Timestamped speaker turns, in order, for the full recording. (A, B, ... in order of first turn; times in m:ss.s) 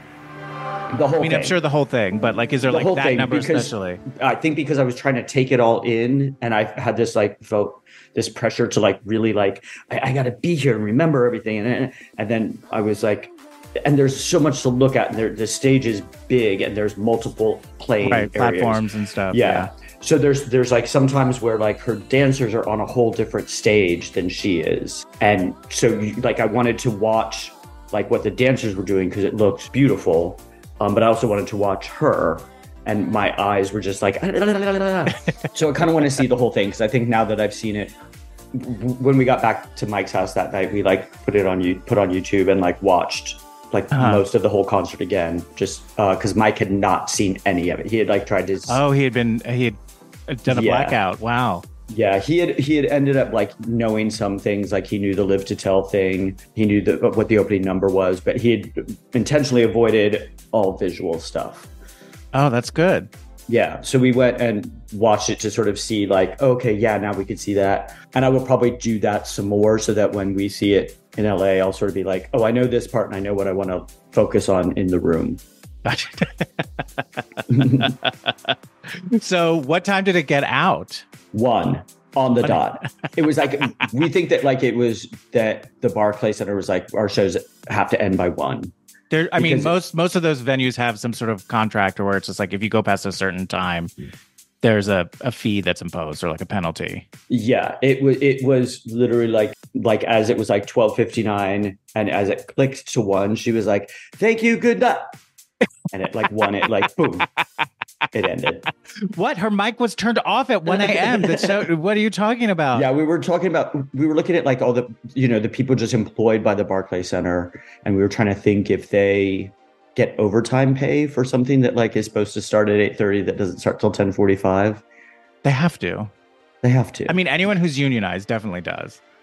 0:00.9-0:01.6 A
0:01.2-0:04.0 B
0:02.7-0:37.9 A
0:18.0-0:19.7 B
0:38.5-0:48.8 A
0:43.9-0:44.2 B
0:48.7-0:51.6 B
0:50.5-0:51.0 A
0:51.9-1:01.7 A
1:02.3-1:03.1 B
1:03.5-1:15.4 A
1:15.8-1:21.0 B
1:17.5-1:18.0 A
1:21.3-1:28.7 A
1:29.1-1:33.9 B
1:29.4-1:29.7 A
1:34.6-1:37.1 B
1:37.3-1:45.2 A
1:45.9-1:47.3 A
1:48.1-1:48.6 A
1:49.1-1:52.9 B
1:50.7-1:51.7 A
1:52.7-2:04.8 A
2:05.4-2:06.1 B
2:06.6-2:07.2 A
2:07.1-2:09.0 B